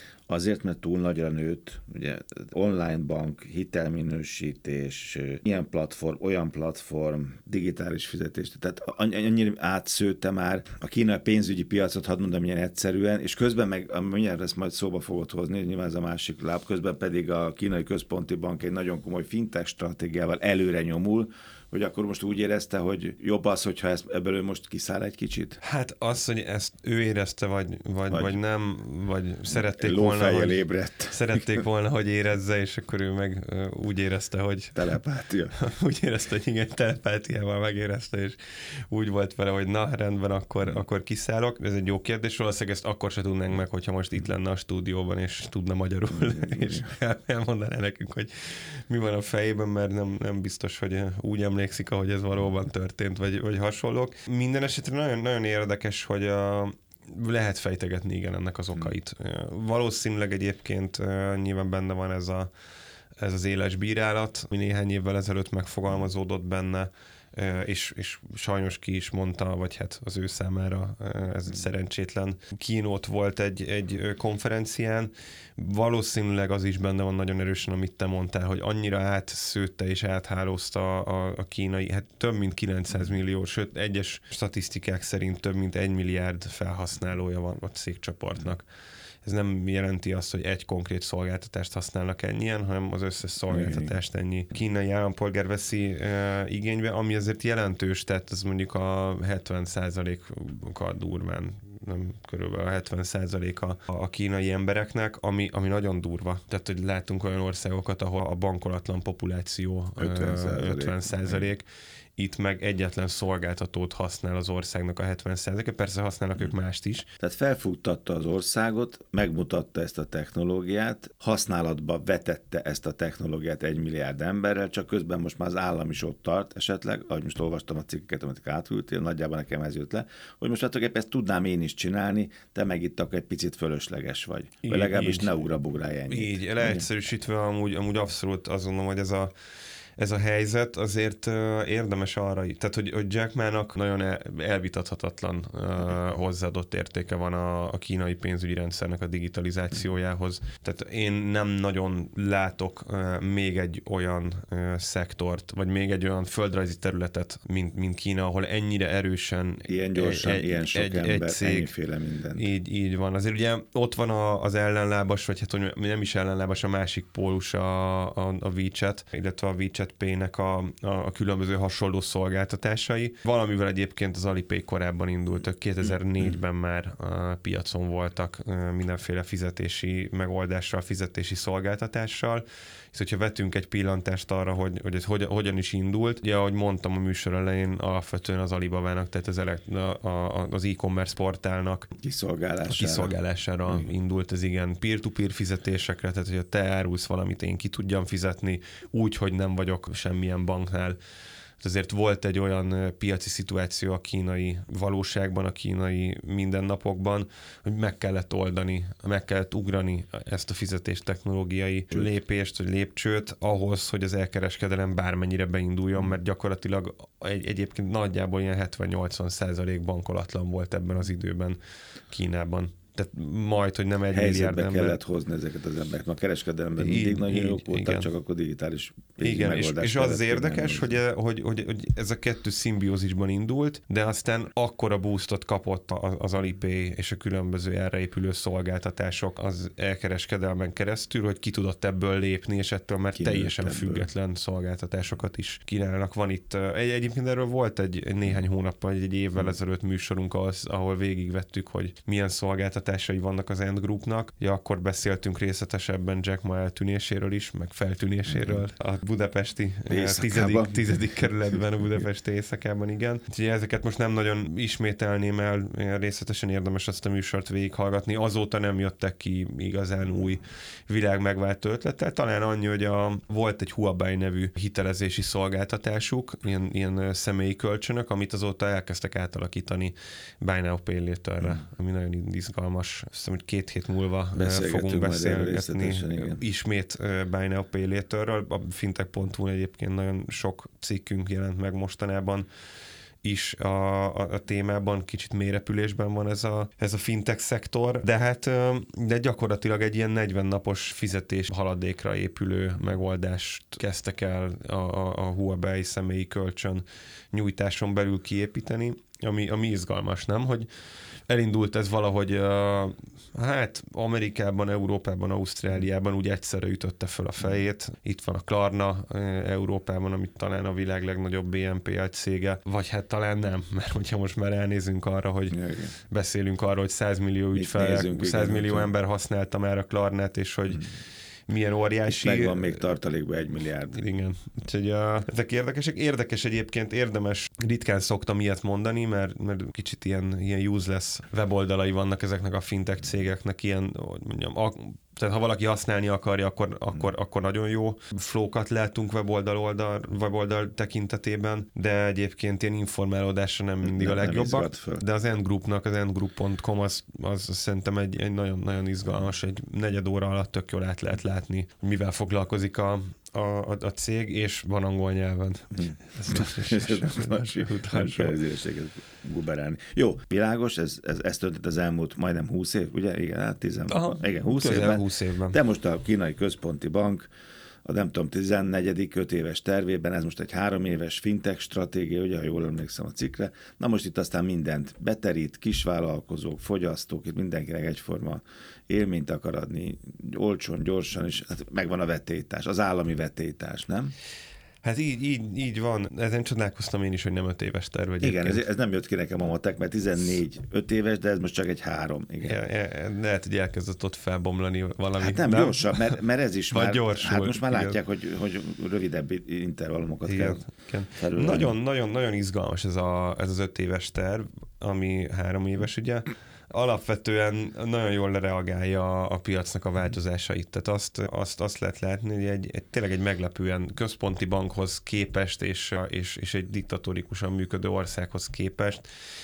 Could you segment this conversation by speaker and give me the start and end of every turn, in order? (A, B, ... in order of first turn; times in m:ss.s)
0:00.3-0:25.6 A
0:25.6-0:34.9 B
0:28.1-0:28.4 A
0:29.5-0:31.4 A
0:34.8-0:35.6 A
0:35.5-1:02.5 B
1:03.2-1:28.6 B
1:29.2-1:57.1 B
1:33.5-1:33.9 A
1:50.0-1:51.5 A
1:57.2-2:16.9 A
2:14.6-2:15.4 B
2:16.1-2:19.3 B
2:20.0-2:41.7 B
2:39.7-2:42.5 A
2:42.4-3:11.9 B
3:12.0-3:13.2 A
3:12.7-3:21.0 B
3:21.6-3:41.6 B
3:42.1-3:45.0 B
3:44.1-3:51.0 A
3:46.8-3:48.1 B
3:49.2-4:52.5 B
4:03.2-4:04.1 A
4:18.3-4:18.6 A
4:19.9-4:21.6 A
4:44.4-4:46.4 A
4:53.2-5:10.7 B
5:11.3-5:30.9 B
5:25.5-5:25.9 A
5:27.6-5:28.9 A
5:31.5-5:32.8 B
5:32.1-5:34.0 A
5:33.9-6:08.4 B
5:53.8-5:55.0 A
6:06.3-6:17.3 A
6:13.9-6:15.6 B
6:17.8-6:34.1 A
6:34.8-6:38.6 B
6:38.2-6:42.6 A
6:42.4-6:46.2 B
6:45.2-6:51.8 A
6:46.7-6:48.0 B
6:50.3-7:09.1 B